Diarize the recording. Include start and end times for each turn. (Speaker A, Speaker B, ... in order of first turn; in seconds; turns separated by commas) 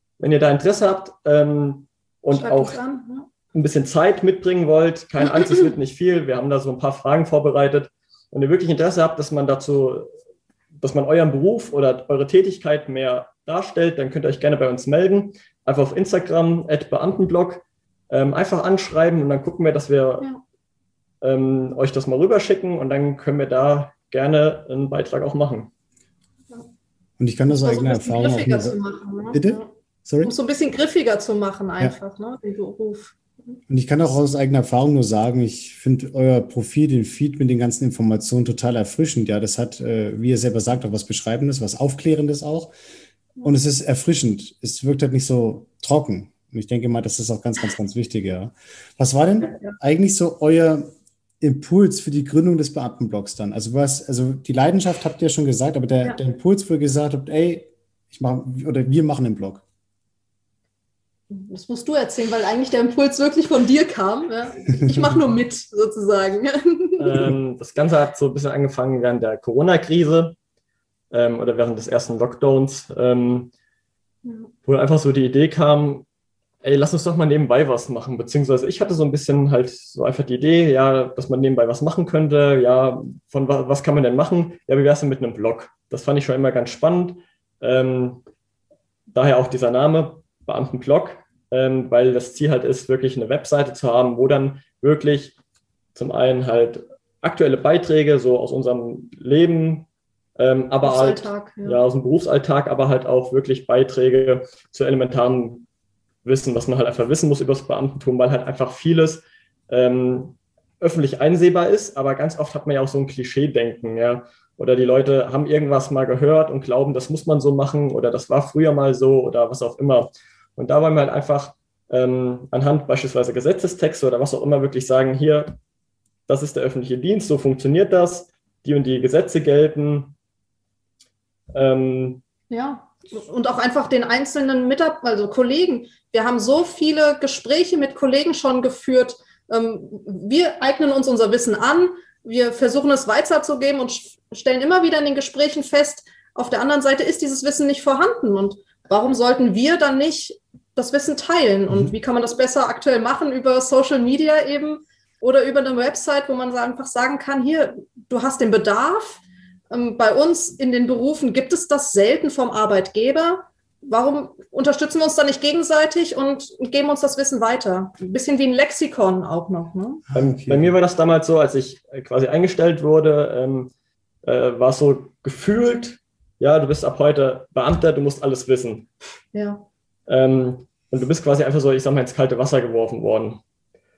Speaker A: 0.2-2.8, Speaker B: 2.3-3.3, Speaker A: 3.5-10.1, Speaker A: 10.8-20.3, Speaker A: 21.2-25.7, Speaker C: 27.2-28.8, Speaker B: 27.5-29.7, Speaker C: 29.3-30.3, Speaker B: 30.2-33.6, Speaker C: 33.7-42.7, Speaker C: 43.4-50.9, Speaker C: 51.4-59.6, Speaker B: 61.3-67.2, Speaker A: 67.0-70.4, Speaker A: 71.1-73.5, Speaker B: 74.2-74.5, Speaker A: 74.7-76.0, Speaker A: 76.6-88.2, Speaker A: 89.1-95.3, Speaker A: 96.0-105.7, Speaker B: 100.8-101.8, Speaker A: 106.2-125.5, Speaker A: 126.3-130.1, Speaker A: 131.5-132.2, Speaker B: 132.5-170.0, Speaker C: 170.1-170.8, Speaker A: 170.1-173.7, Speaker A: 174.2-178.9, Speaker B: 179.3-179.6, Speaker A: 180.1-183.4